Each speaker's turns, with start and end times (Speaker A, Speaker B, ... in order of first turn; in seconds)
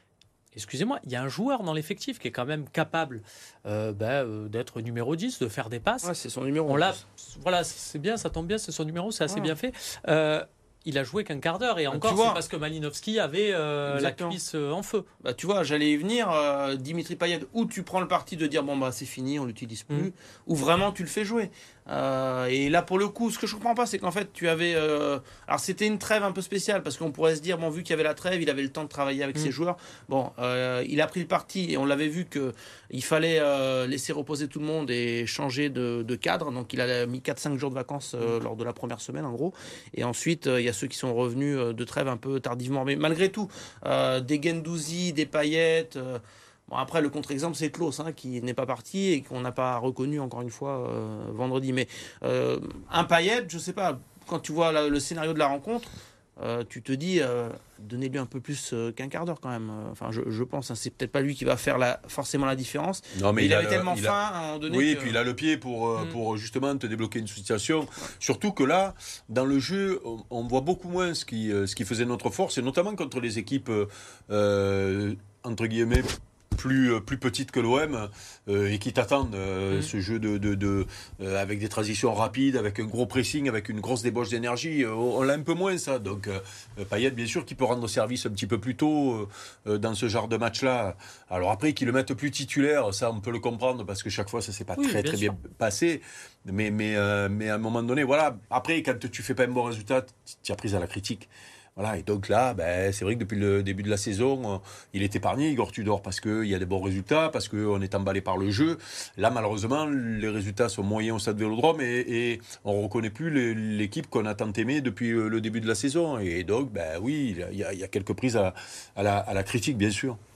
Speaker A: 0.5-6.1, 6.7-15.1, 94.8-95.3
Speaker B: 6.0-7.0, 9.3-9.5, 11.9-12.4, 13.9-14.4, 15.2-65.2
Speaker C: 63.1-64.2, 64.7-120.2